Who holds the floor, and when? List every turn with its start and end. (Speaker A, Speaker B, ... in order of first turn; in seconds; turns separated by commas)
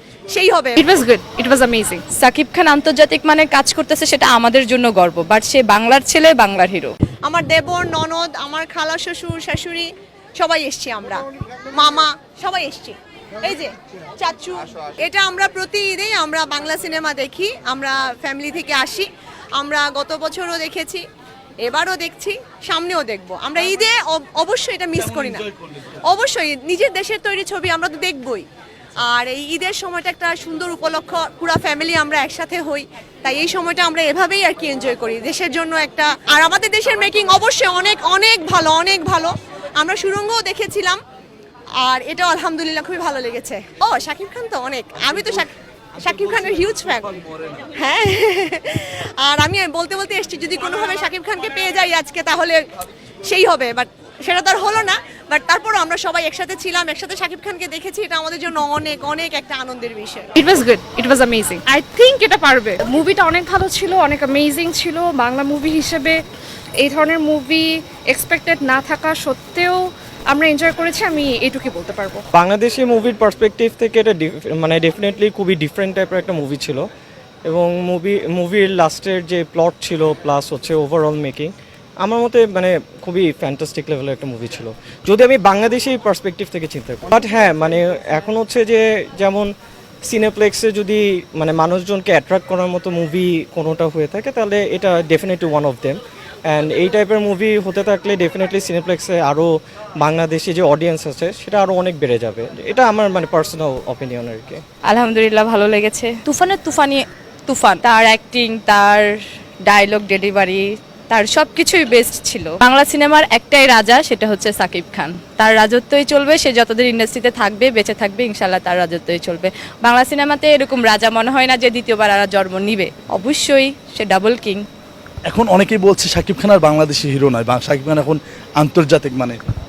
Speaker A: 0.3-0.8, Speaker B: 0.8-2.0, Speaker C: 2.2-6.9, Speaker A: 7.2-21.0, Speaker A: 21.6-28.4, Speaker A: 29.0-41.0, Speaker A: 41.8-52.6, Speaker A: 53.2-60.3, Speaker B: 60.4-66.2, Speaker B: 66.8-72.2, Speaker D: 72.3-76.9, Speaker D: 77.5-89.5, Speaker D: 90.0-104.6, Speaker C: 104.9-109.0, Speaker C: 109.7-124.6, Speaker E: 125.3-129.4